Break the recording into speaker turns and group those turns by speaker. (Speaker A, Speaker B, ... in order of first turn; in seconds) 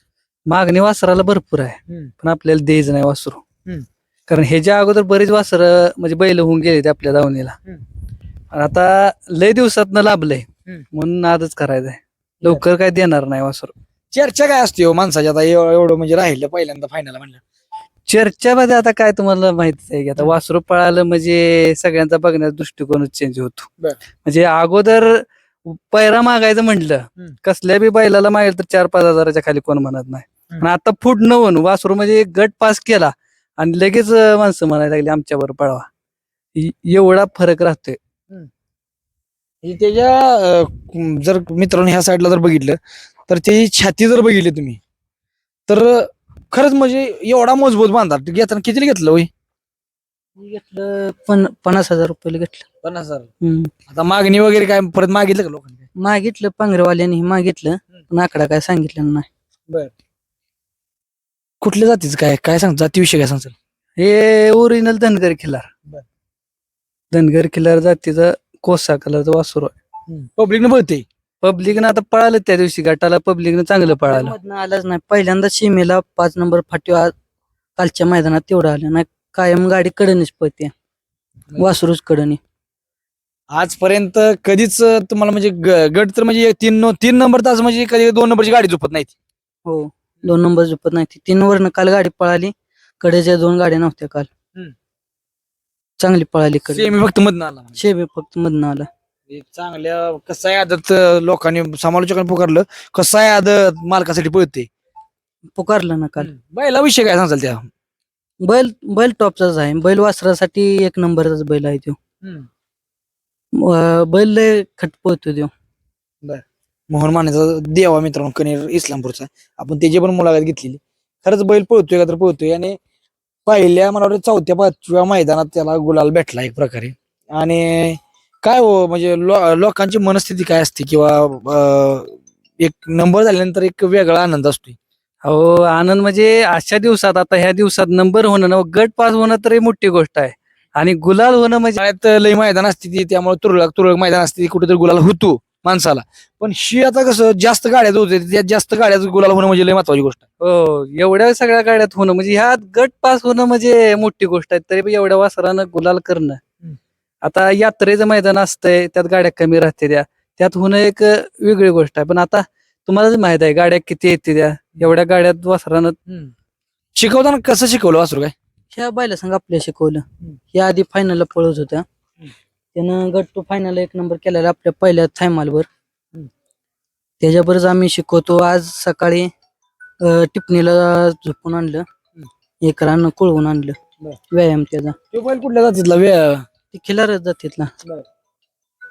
Speaker A: 0.5-3.4, 4.3-7.6, 8.5-13.7, 18.1-23.7, 24.2-35.9, 36.5-38.0, 64.0-65.7, 67.1-69.8, 71.4-74.4, 135.2-141.8, 150.4-156.4, 157.2-166.0
Speaker B: 14.1-17.4, 39.6-44.8, 45.7-49.3, 52.8-53.3, 53.9-55.9, 61.6-63.5, 70.1-71.0, 83.5-89.1, 96.7-97.8, 99.3-104.7, 106.2-107.7, 116.2-122.8, 123.5-134.8, 141.8-150.2, 167.0-168.3, 185.1-186.4
Speaker C: 50.4-52.7, 53.4-53.7, 56.0-59.3, 74.1-77.1, 77.8-80.7, 81.6-82.4, 89.7-94.3, 96.0-96.9, 97.8-98.9, 105.5-106.3, 108.4-112.0, 113.6-115.5, 168.7-171.8, 172.8-175.7, 177.2-179.3, 180.0-181.8, 182.6-183.8, 184.3-184.9, 186.7-187.7